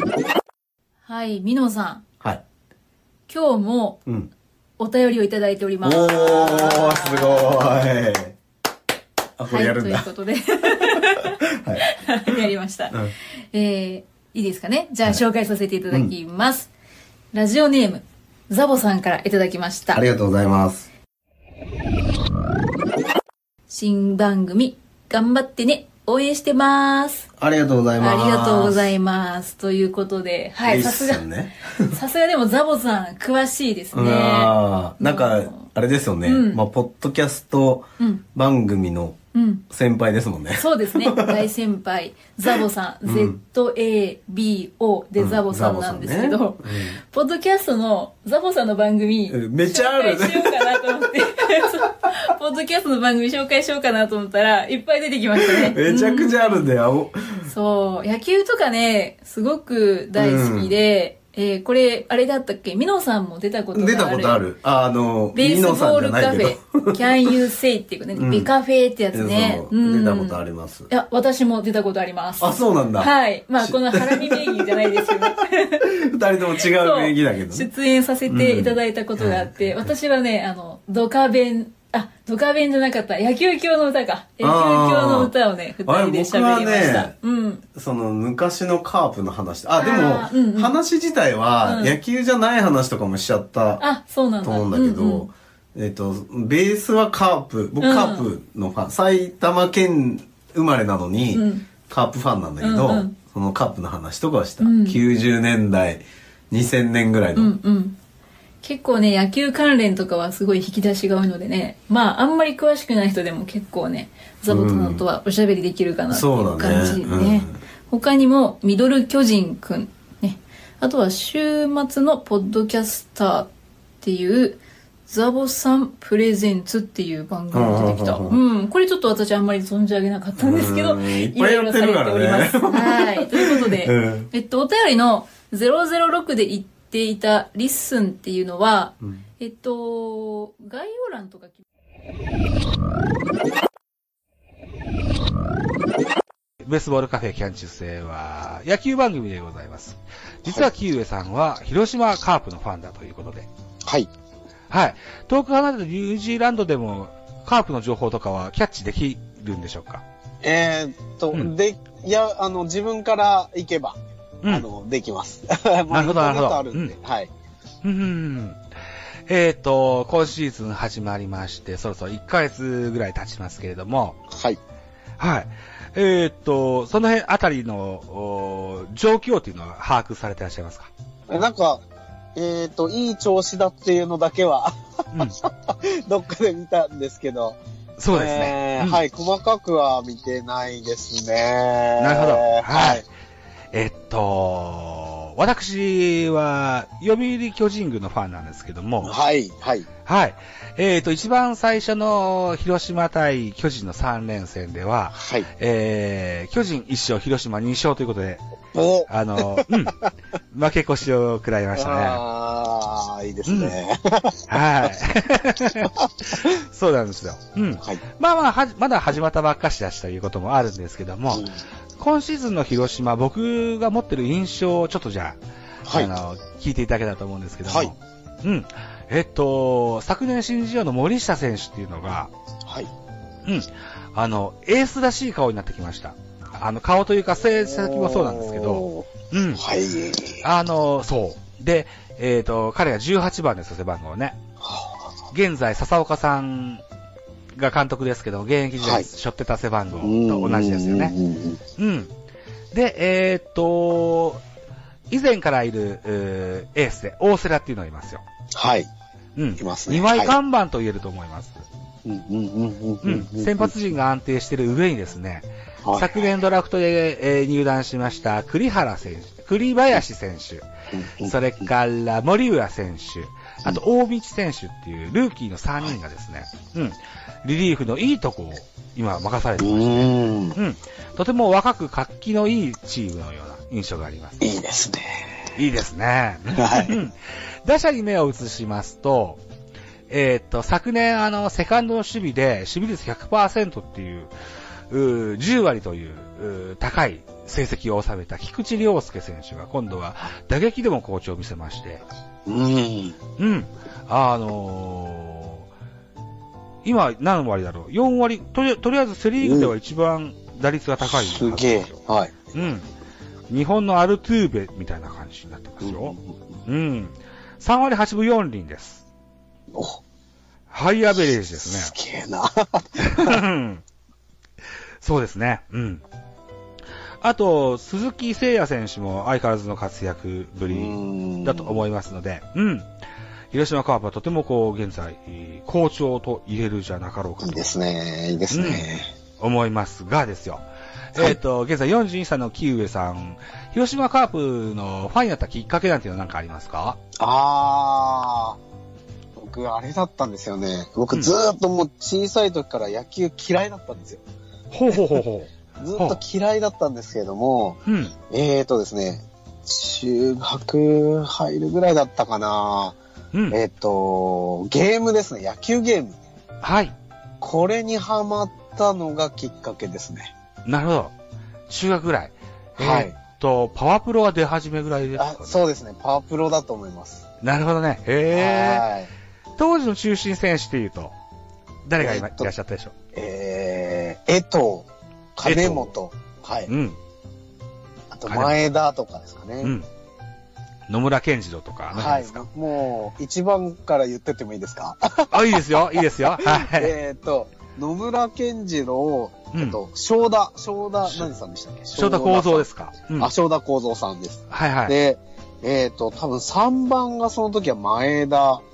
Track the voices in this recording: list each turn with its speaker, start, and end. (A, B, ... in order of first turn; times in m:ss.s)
0:01.0-0:02.0 A
0:03.3-0:04.0 A
0:04.0-0:04.3 B
0:04.8-0:07.9 A
0:05.8-0:08.4 B
0:09.4-0:10.1 B
0:09.5-0:16.7 A
0:10.7-0:12.4 B
0:17.3-0:20.0 A
0:19.9-0:20.9 B
0:23.7-0:27.3 A
0:27.4-0:28.8 B
0:28.0-0:31.3 A
0:30.6-0:32.0 B
0:31.8-0:35.7 A
0:33.9-0:39.2 B
0:36.2-0:36.6 A
0:38.0-0:38.2 A
0:39.3-0:39.6 A
0:39.7-0:41.4 B
0:40.6-0:56.7 A
0:43.0-0:43.4 B
0:45.2-0:47.0 B
0:49.3-0:51.0 B
0:55.5-0:57.5 B
0:57.4-1:04.4 A
1:00.1-1:00.8 B
1:03.7-1:07.3 B
1:05.3-1:15.9 A
1:08.1-1:08.5 B
1:09.1-1:10.9 B
1:12.4-1:17.7 B
1:16.6-1:27.6 A
1:18.3-1:19.8 B
1:24.4-1:25.3 B
1:25.8-1:27.1 B
1:27.7-1:33.8 B
1:29.8-1:30.8 A
1:31.6-1:32.0 A
1:33.8-1:35.3 A
1:34.4-1:47.5 B
1:37.8-1:38.3 A
1:41.3-1:41.7 A
1:42.6-1:43.2 A
1:44.6-1:45.0 A
1:47.3-1:48.0 A
1:48.6-2:03.5 A
1:54.5-1:55.0 B
1:56.1-1:57.6 B
2:04.0-2:21.6 A
2:07.5-2:08.4 B
2:10.4-2:14.3 B
2:26.6-2:33.5 C
2:34.7-2:40.0 C
2:40.4-2:47.3 D
2:45.9-2:47.0 C
2:47.8-2:48.6 C
2:49.3-2:54.2 C
2:54.3-2:54.6 D
2:55.2-3:00.9 C
3:01.3-3:01.8 D
3:02.3-3:07.6 D
3:08.0-3:09.0 C
3:08.1-3:13.0 D
3:12.0-3:13.1 C
3:13.7-3:19.1 C
3:19.0-3:19.9 D
3:20.0-3:28.4 C
3:25.1-3:25.5 D
3:28.7-3:29.8 D
3:29.1-3:30.0 C
3:30.5-3:32.2 C
3:31.8-3:34.9 D
3:33.4-3:33.8 C
3:34.5-3:35.9 C
3:35.7-3:36.5 D
3:36.4-3:41.4 C
3:41.3-3:41.6 D
3:42.0-3:52.3 C
3:47.6-3:47.9 D
3:53.4-3:59.6 C
3:57.6-4:00.4 D
4:00.4-4:04.4 C
4:04.6-4:05.0 D
4:05.3-4:06.8 C
4:07.5-4:11.1 C
4:08.8-4:09.1 D
4:09.9-4:11.6 D
4:11.8-4:12.1 C
4:12.7-4:14.4 C
4:15.1-4:18.2 C
4:18.5-4:18.9 D
4:19.4-4:21.6 C
4:19.6-4:20.3 D
4:22.0-4:23.7 D
4:23.0-4:30.7 C
4:25.8-4:26.4 D
4:30.9-4:31.7 D
4:31.2-4:44.4 C
4:39.6-4:40.6 D
4:44.4-4:45.5 D
4:45.6-4:49.4 C
4:46.5-4:47.0 D
4:50.1-4:54.3 C
4:54.9-5:02.0 C
5:02.4-5:03.2 D
5:03.4-5:05.7 C
5:06.8-5:12.0 C
5:09.4-5:09.7 D
5:11.0-5:12.7 D
5:12.5-5:12.9 C
5:13.5-5:19.0 C
5:15.8-5:16.5 D
5:19.7-5:20.0 D
5:20.7-5:21.9 C
5:21.6-5:23.4 D
5:23.0-5:23.8 C
5:25.0-5:26.0 C
5:27.2-5:32.9 C
5:30.7-5:31.8 D
5:33.5-5:37.6 C
5:37.4-5:39.1 D
5:38.5-5:38.8 C
5:39.4-5:47.0 C
5:47.2-5:48.6 D
5:49.4-5:54.2 D
5:54.7-5:56.2 C
5:54.9-5:55.2 D
5:55.8-6:03.0 D
5:57.8-5:58.1 C
6:03.3-6:03.6 C
6:03.5-6:06.2 D
6:06.6-6:06.9 C
6:07.4-6:10.3 D
6:10.6-6:11.1 C
6:11.7-6:15.6 C
6:12.8-6:13.2 D
6:15.2-6:17.2 D
6:17.4-6:18.8 C
6:18.3-6:19.1 D
6:19.6-6:21.1 C
6:21.8-6:22.9 C
6:22.0-6:22.5 D
6:23.1-6:26.7 D
6:25.4-6:25.9 C
6:26.7-6:27.0 C
6:28.1-6:29.7 D
6:28.3-6:28.6 C
6:29.6-6:29.9 C
6:30.9-6:32.4 C
6:31.9-6:48.6 D
6:35.3-6:36.9 C
6:39.5-6:39.8 C
6:41.0-6:41.3 C
6:41.9-6:43.3 C
6:44.5-6:44.9 C